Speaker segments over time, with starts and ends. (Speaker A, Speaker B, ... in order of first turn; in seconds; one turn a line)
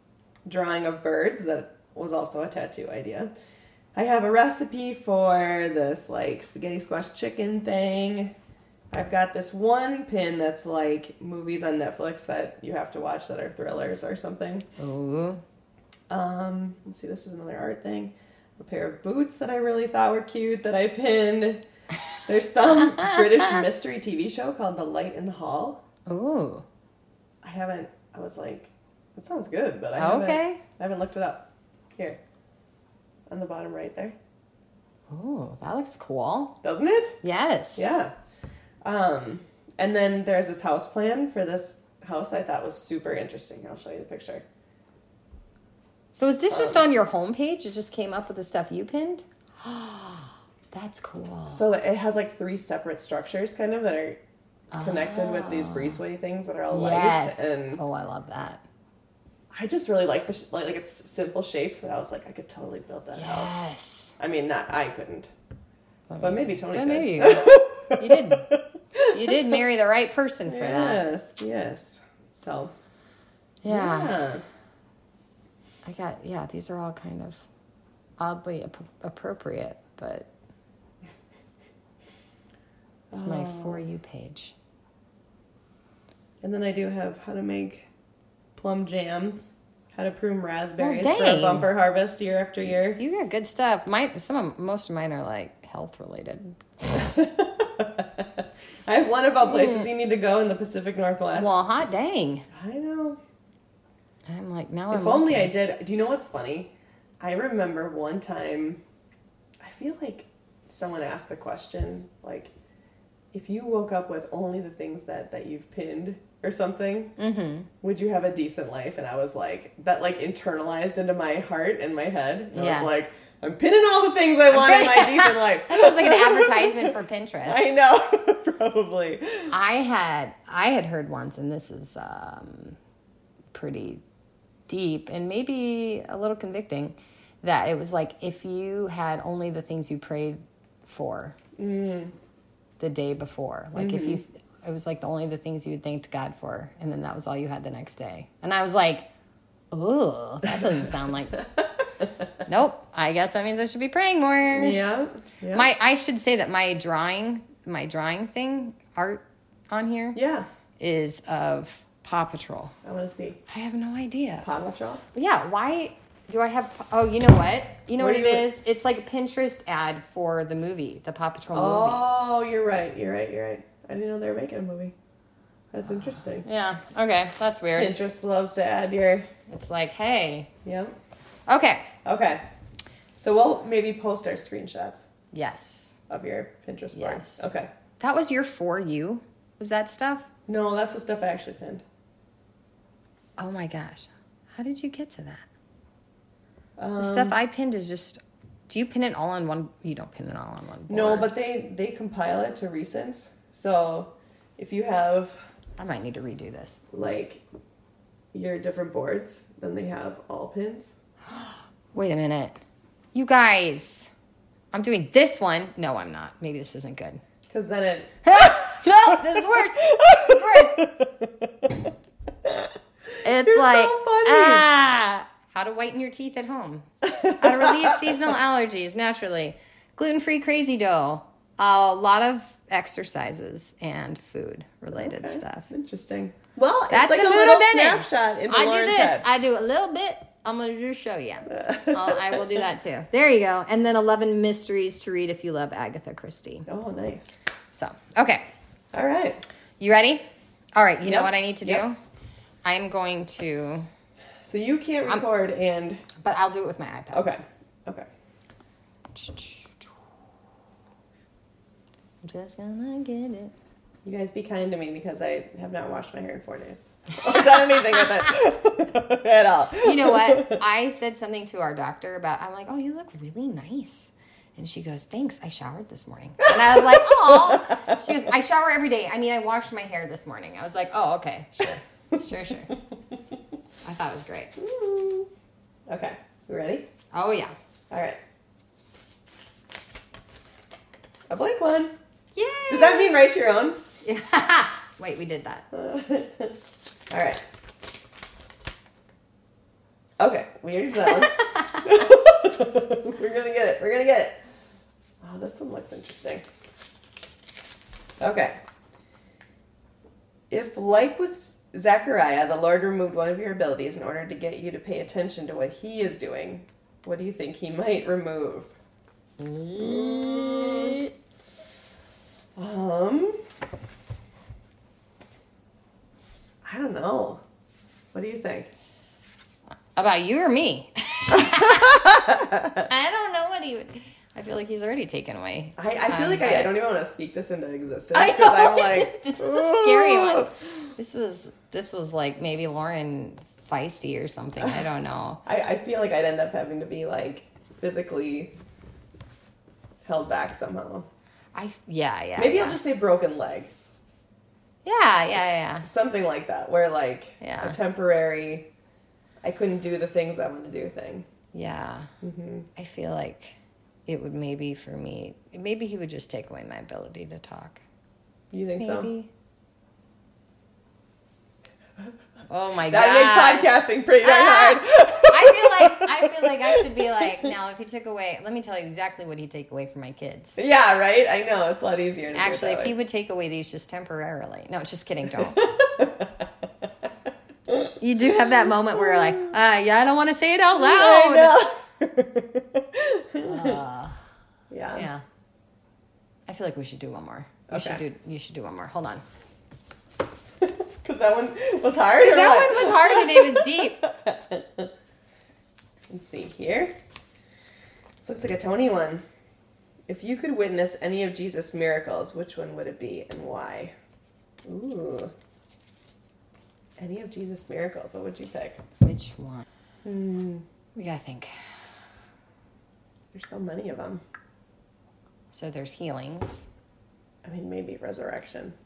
Speaker A: 0.5-3.3
Speaker A: 3.9-8.3
Speaker A: 8.9-14.7
Speaker B: 14.8-15.4
Speaker A: 16.1-21.6
Speaker A: 22.2-25.8
Speaker B: 22.6-23.6
Speaker B: 26.1-26.6
Speaker A: 27.4-32.2
Speaker B: 29.9-30.6
Speaker A: 33.3-34.1
Speaker B: 35.1-36.5
Speaker A: 36.6-37.1
Speaker B: 37.2-37.9
Speaker A: 37.8-38.1
Speaker A: 38.8-44.4
Speaker B: 46.1-51.6
Speaker A: 46.5-46.8
Speaker A: 51.5-54.2
Speaker B: 54.7-56.0
Speaker A: 54.8-57.8
Speaker B: 56.7-58.6
Speaker A: 59.5-63.6
Speaker B: 63.1-64.1
Speaker A: 64.2-65.3
Speaker B: 66.1-68.5
Speaker A: 66.2-69.6
Speaker B: 69.1-71.0
Speaker A: 70.5-72.7
Speaker B: 73.6-74.2
Speaker A: 73.7-74.4
Speaker B: 75.8-77.5
Speaker B: 78.2-80.3
Speaker A: 83.1-83.9
Speaker B: 83.1-84.5
Speaker A: 86.4-87.9
Speaker A: 88.5-89.4
Speaker A: 89.9-93.0
Speaker B: 90.8-91.7
Speaker B: 92.6-96.6
Speaker A: 96.9-101.6
Speaker B: 99.4-99.9
Speaker B: 101.3-102.5
Speaker A: 102.5-103.2
Speaker B: 104.3-105.5
Speaker A: 104.9-108.8
Speaker A: 109.6-112.5
Speaker A: 113.3-117.1
Speaker B: 117.2-117.7
Speaker A: 117.8-129.5
Speaker B: 122.5-122.9
Speaker B: 124.5-127.7
Speaker B: 129.5-132.8
Speaker B: 133.5-134.0
Speaker B: 134.7-141.3
Speaker A: 141.6-142.1
Speaker B: 142.8-149.1
Speaker A: 143.8-144.2
Speaker B: 149.7-151.3
Speaker B: 152.5-154.8
Speaker A: 154.5-155.7
Speaker B: 155.5-160.2
Speaker A: 160.1-160.5
Speaker B: 160.8-162.7
Speaker A: 162.8-163.4
Speaker B: 163.5-164.5
Speaker A: 164.4-165.0
Speaker B: 165.1-172.0
Speaker A: 168.0-168.5
Speaker A: 171.5-174.9
Speaker A: 175.7-176.4
Speaker B: 176.4-177.9
Speaker A: 177.8-179.3
Speaker B: 179.5-180.5
Speaker A: 180.6-180.9
Speaker B: 181.5-181.9
Speaker A: 182.0-182.4
Speaker A: 183.2-185.1
Speaker B: 185.3-186.0
Speaker A: 186.1-187.7
Speaker B: 186.9-190.3
Speaker A: 190.5-191.8
Speaker B: 193.4-195.4
Speaker A: 196.8-197.3
Speaker B: 197.0-201.3
Speaker A: 200.9-205.4
Speaker B: 205.8-206.8
Speaker A: 206.9-207.4
Speaker A: 208.3-210.9
Speaker B: 211.9-212.6
Speaker B: 213.1-214.1
Speaker B: 214.7-217.2
Speaker A: 217.5-218.5
Speaker B: 218.3-220.8
Speaker A: 219.2-221.8
Speaker A: 222.4-222.7
Speaker B: 223.2-226.9
Speaker A: 223.3-224.7
Speaker A: 227.1-228.3
Speaker B: 227.4-235.7
Speaker A: 234.9-239.2
Speaker B: 236.9-246.7
Speaker A: 241.5-242.5
Speaker A: 246.7-247.3
Speaker B: 247.7-248.4
Speaker A: 248.9-249.4
Speaker B: 249.8-250.2
Speaker B: 250.7-252.0
Speaker A: 251.0-251.8
Speaker B: 252.6-253.9
Speaker A: 254.4-256.0
Speaker B: 256.2-257.3
Speaker A: 257.1-258.1
Speaker B: 259.1-259.9
Speaker B: 262.2-263.5
Speaker A: 264.0-270.6
Speaker B: 269.8-282.7
Speaker A: 276.5-278.0
Speaker B: 283.8-284.5
Speaker A: 284.6-285.3
Speaker A: 285.9-286.9
Speaker B: 287.1-287.5
Speaker A: 287.9-288.2
Speaker A: 291.3-291.9
Speaker B: 292.3-293.2
Speaker A: 292.7-293.8
Speaker B: 294.0-295.6
Speaker A: 295.7-296.6
Speaker A: 297.1-297.4
Speaker A: 300.2-304.4
Speaker B: 301.1-301.7
Speaker A: 305.2-306.4
Speaker A: 308.2-308.6
Speaker A: 310.5-318.7
Speaker B: 319.4-321.1
Speaker A: 319.7-321.0
Speaker A: 322.6-323.4
Speaker A: 326.6-327.4
Speaker A: 328.1-328.7
Speaker B: 329.9-332.1
Speaker A: 331.3-332.9
Speaker B: 332.9-336.7
Speaker A: 335.8-340.6
Speaker B: 338.1-345.4
Speaker A: 344.6-344.9
Speaker A: 345.4-348.5
Speaker A: 350.0-351.1
Speaker B: 351.5-352.8
Speaker A: 352.4-353.7
Speaker B: 354.8-355.9
Speaker A: 355.3-358.7
Speaker B: 357.4-357.8
Speaker A: 359.4-361.2
Speaker B: 361.5-362.1
Speaker A: 362.2-362.7
Speaker B: 362.8-363.6
Speaker B: 364.1-367.8
Speaker A: 368.5-369.1
Speaker B: 368.8-369.3
Speaker B: 372.5-380.6
Speaker A: 372.9-377.5
Speaker A: 380.6-382.9
Speaker B: 382.3-385.6
Speaker A: 385.4-386.4
Speaker B: 388.0-391.6
Speaker A: 389.0-389.5
Speaker A: 390.8-393.8
Speaker B: 393.4-394.2
Speaker A: 394.7-395.1
Speaker B: 394.9-395.2
Speaker B: 396.5-399.2
Speaker A: 397.7-398.0
Speaker A: 400.6-404.9
Speaker B: 402.1-404.0
Speaker A: 406.1-406.9
Speaker A: 408.2-409.2
Speaker A: 410.1-413.9
Speaker A: 414.6-415.3
Speaker A: 417.0-418.8
Speaker B: 419.0-419.6
Speaker A: 420.0-420.6
Speaker B: 420.9-421.5
Speaker A: 423.3-424.2
Speaker B: 425.5-426.7
Speaker A: 427.4-428.7